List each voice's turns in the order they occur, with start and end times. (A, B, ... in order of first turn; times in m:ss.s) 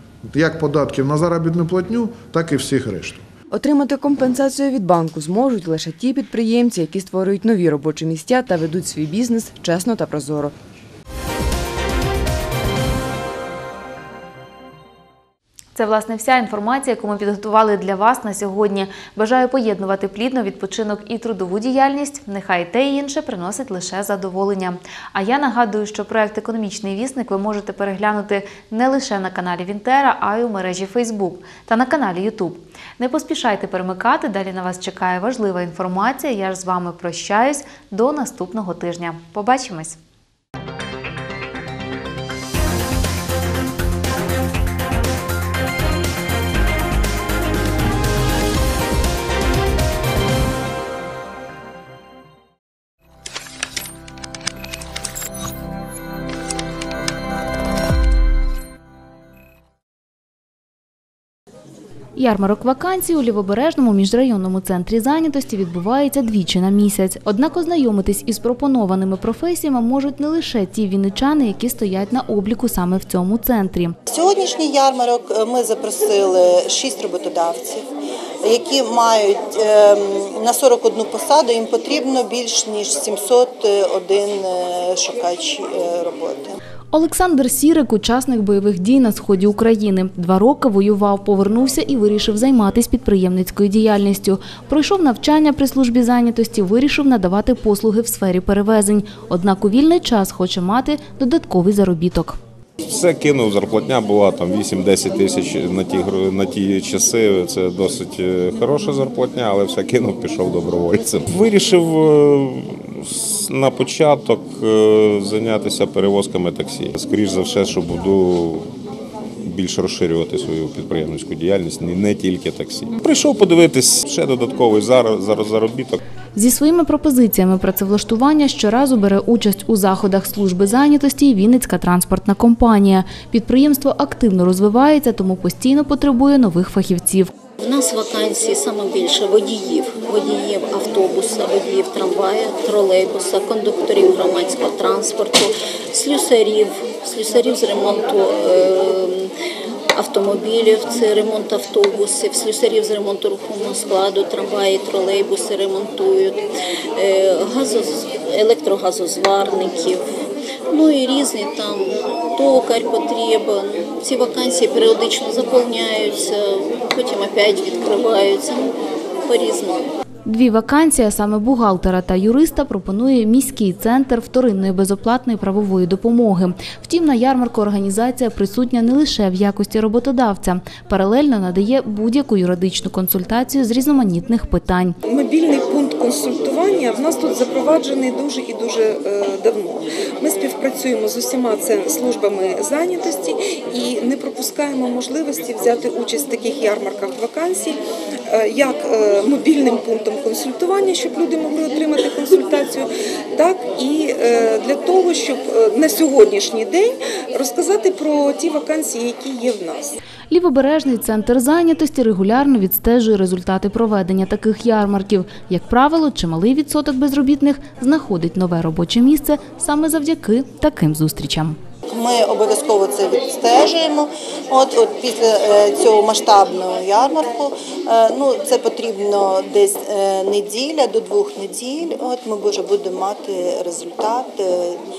0:00.3-0:03.2 A
0:03.5-0:10.5 B
0:15.7-0:40.0 C
1:02.2-1:14.0 C
1:14.1-1:17.9 D
1:18.4-1:26.6 D
1:26.9-1:42.4 C
1:42.8-1:58.7 E
1:59.4-2:06.0 E
2:06.4-2:17.3 C
2:17.6-2:29.3 F
2:30.0-2:36.4 F
2:37.0-2:40.0 F
2:40.7-2:49.9 F
2:50.2-3:04.9 C
3:05.0-3:30.0 G
3:30.3-3:41.6 C
3:41.9-3:54.8 D